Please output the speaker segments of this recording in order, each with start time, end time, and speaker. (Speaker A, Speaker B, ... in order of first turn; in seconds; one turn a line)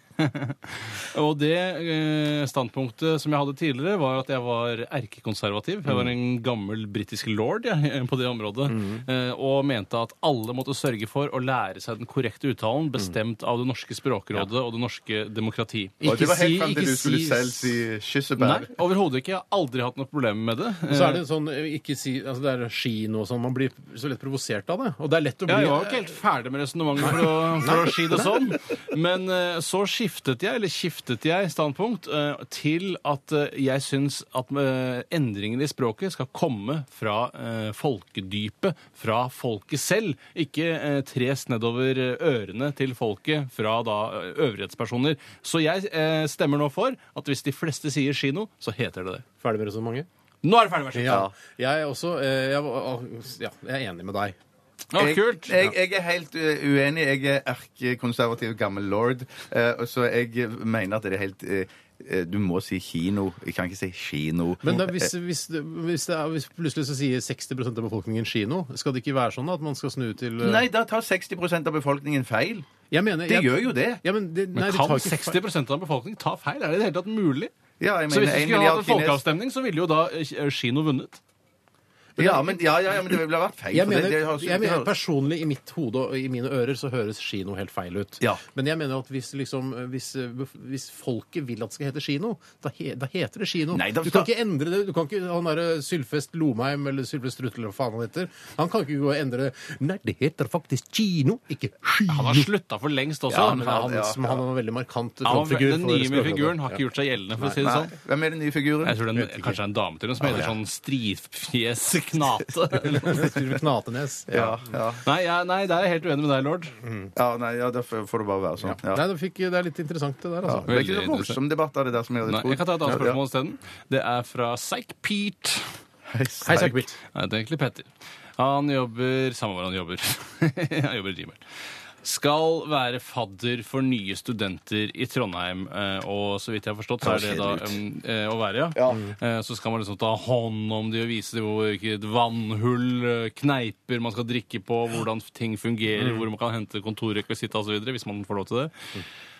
Speaker A: 0.2-16.0
Speaker B: 8.7-9.0
Speaker B: 16.0-17.8
Speaker C: 16.0-18.7
Speaker A: 18.4-21.2
Speaker B: 20.9-25.9
Speaker A: 25.5-49.2
Speaker B: 27.0-28.3
Speaker B: 49.4-50.1
Speaker A: 50.4-51.2
Speaker B: 50.9-54.4
Speaker C: 51.1-51.3
Speaker A: 54.9-55.5
Speaker C: 55.0-65.1
Speaker B: 64.6-70.7
Speaker C: 70.4-72.7
Speaker B: 72.9-75.4
Speaker C: 73.2-74.0
Speaker A: 74.5-77.5
Speaker C: 77.8-79.2
Speaker A: 78.1-81.2
Speaker B: 82.2-82.6
Speaker C: 82.2-84.9
Speaker B: 83.7-102.5
Speaker C: 93.7-94.3
Speaker A: 102.1-103.8
Speaker C: 103.3-104.4
Speaker B: 103.3-106.8
Speaker A: 105.2-107.9
Speaker C: 107.6-109.0
Speaker A: 108.8-113.3
Speaker B: 112.9-114.6
Speaker C: 114.3-115.0
Speaker A: 115.0-116.8
Speaker C: 117.1-119.0
Speaker B: 118.6-120.9
Speaker C: 120.4-123.2
Speaker A: 120.7-121.4
Speaker A: 122.2-125.7
Speaker C: 126.1-126.8
Speaker B: 126.4-127.0
Speaker A: 127.1-131.4
Speaker A: 132.0-148.7
Speaker C: 137.0-137.8
Speaker C: 138.8-139.0